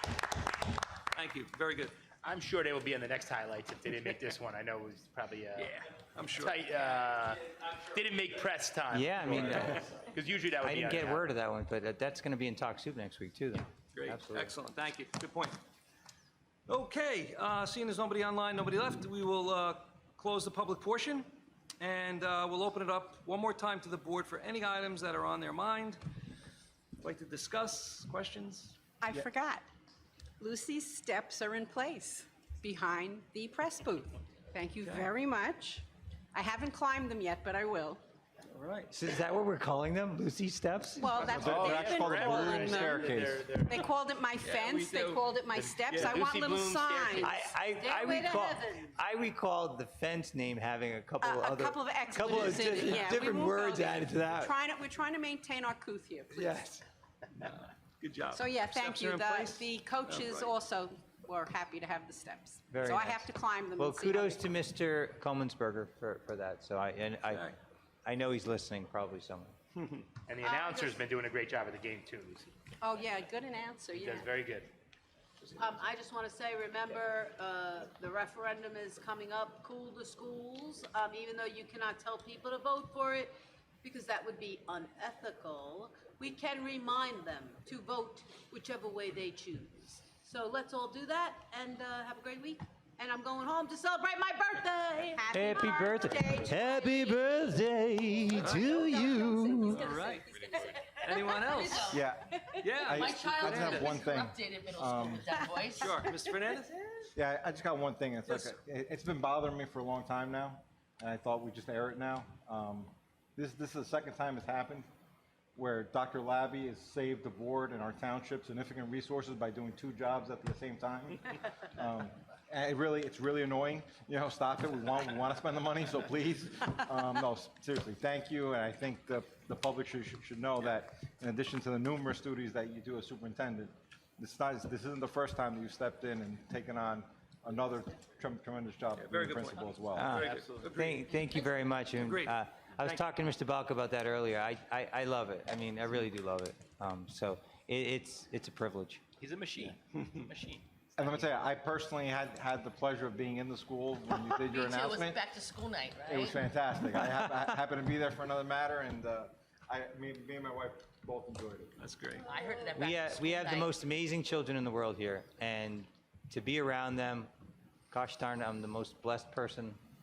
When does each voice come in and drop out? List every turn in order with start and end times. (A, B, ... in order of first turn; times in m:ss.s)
0:01.1-0:02.0 A
0:02.2-0:05.8 B
0:05.6-0:06.8 A
0:06.4-0:11.2 B
0:08.9-0:10.0 C
0:10.6-0:14.5 C
0:13.9-0:15.6 A
0:16.7-0:26.0 A
0:27.0-0:29.2 A
0:29.0-0:29.6 D
0:30.4-0:38.0 D
0:34.8-0:35.1 A
0:38.5-0:38.9 A
0:38.9-0:41.2 C
0:41.0-0:47.3 D
0:41.2-0:43.4 E
0:41.3-0:43.7 B
0:44.4-0:45.3 A
0:45.5-0:47.5 B
0:45.9-0:46.2 A
0:47.2-0:54.5 C
0:47.8-0:48.9 F
0:51.2-0:56.6 D
0:52.3-0:53.2 A
0:56.3-0:56.8 A
0:57.4-1:00.5 A
0:58.3-1:04.5 D
1:02.7-1:07.5 C
1:07.3-1:07.6 A
1:08.0-1:09.5 C
1:10.3-1:12.5 B
1:10.4-1:11.0 F
1:12.8-1:14.4 D
1:14.0-1:14.7 B
1:15.6-1:36.9 F
1:35.3-1:40.0 C
1:35.6-1:36.0 D
1:38.3-1:38.8 A
1:39.6-1:42.0 A
1:41.1-1:42.0 G
1:41.9-1:45.3 E
1:42.6-1:43.9 A
1:42.8-1:46.0 G
1:45.8-1:47.1 A
1:47.2-1:54.9 E
1:48.3-1:48.5 A
1:55.6-2:20.2 E
2:18.9-2:21.1 A
2:19.9-2:29.0 C
2:20.2-2:20.7 B
2:21.9-2:23.1 A
2:29.2-2:30.6 B
2:31.0-2:35.2 E
2:34.3-2:36.4 G
2:36.0-2:41.7 E
2:37.0-2:37.5 C
2:41.8-2:42.3 A
2:42.3-2:43.8 G
2:42.7-2:47.3 C
2:47.9-2:49.8 C